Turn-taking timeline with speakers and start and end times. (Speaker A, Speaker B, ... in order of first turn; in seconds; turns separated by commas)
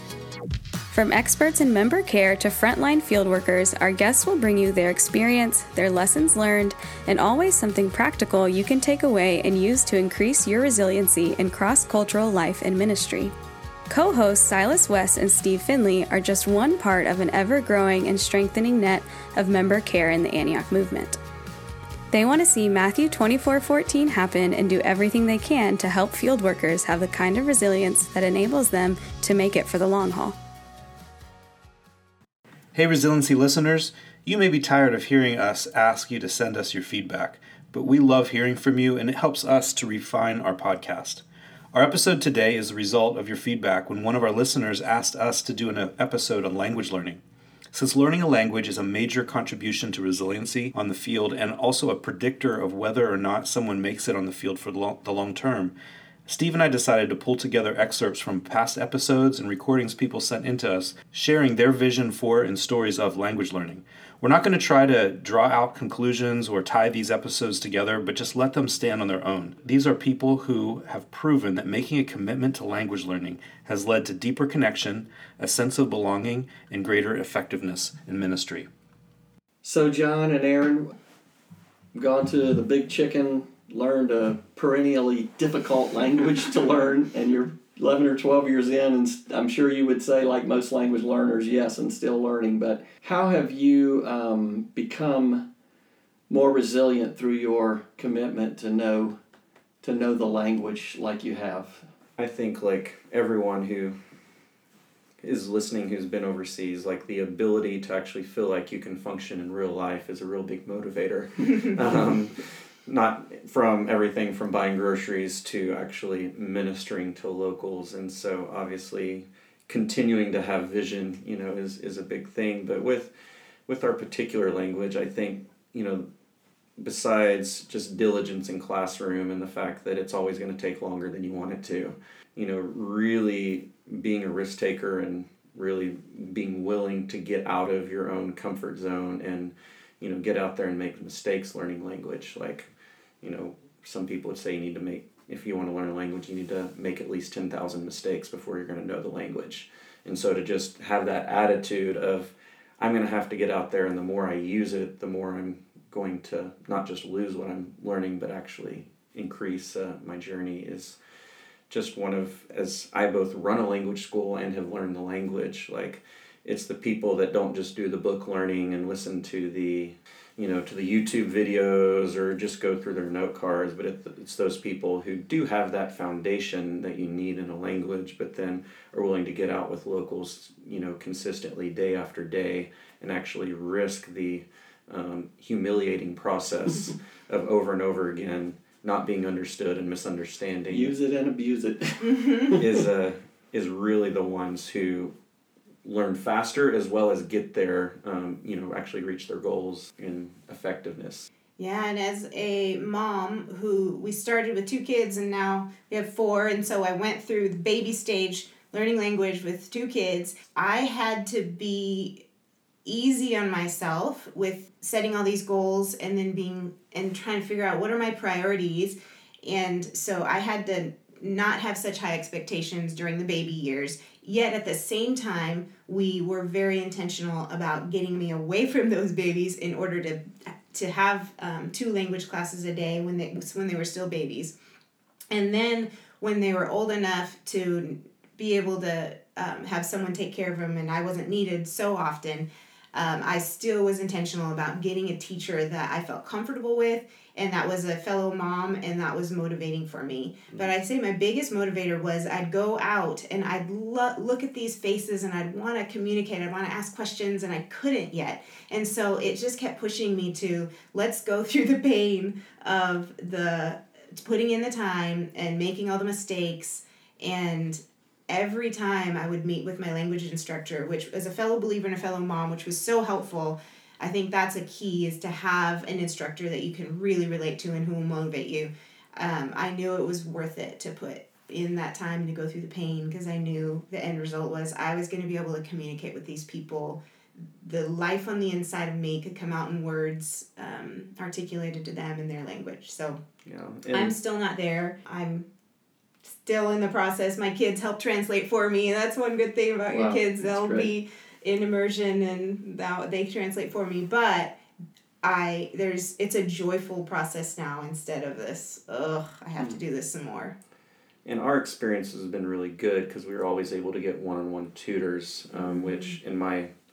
Speaker A: 0.9-13.3, Speaker A: 13.9-21.2, Speaker A: 22.1-30.3, Speaker B: 32.7-47.2, Speaker B: 47.7-55.7, Speaker B: 56.2-78.7, Speaker C: 79.6-80.9, Speaker C: 81.9-95.5, Speaker C: 96.3-99.2, Speaker C: 99.8-101.9, Speaker D: 102.2-104.0, Speaker D: 105.2-123.1, Speaker D: 123.7-126.1, Speaker D: 126.8-142.7, Speaker D: 143.2-161.0, Speaker D: 161.7-190.9, Speaker C: 190.7-192.6, Speaker E: 192.0-192.5, Speaker D: 192.6-195.2, Speaker D: 195.8-201.3, Speaker E: 201.6-212.2, Speaker E: 212.8-234.5, Speaker E: 235.3-287.0, Speaker E: 287.6-293.2, Speaker D: 293.4-294.1, Speaker E: 293.9-295.5, Speaker E: 296.3-304.6, Speaker C: 299.9-300.9, Speaker E: 305.2-310.5, Speaker D: 311.2-316.7, Speaker E: 315.5-316.1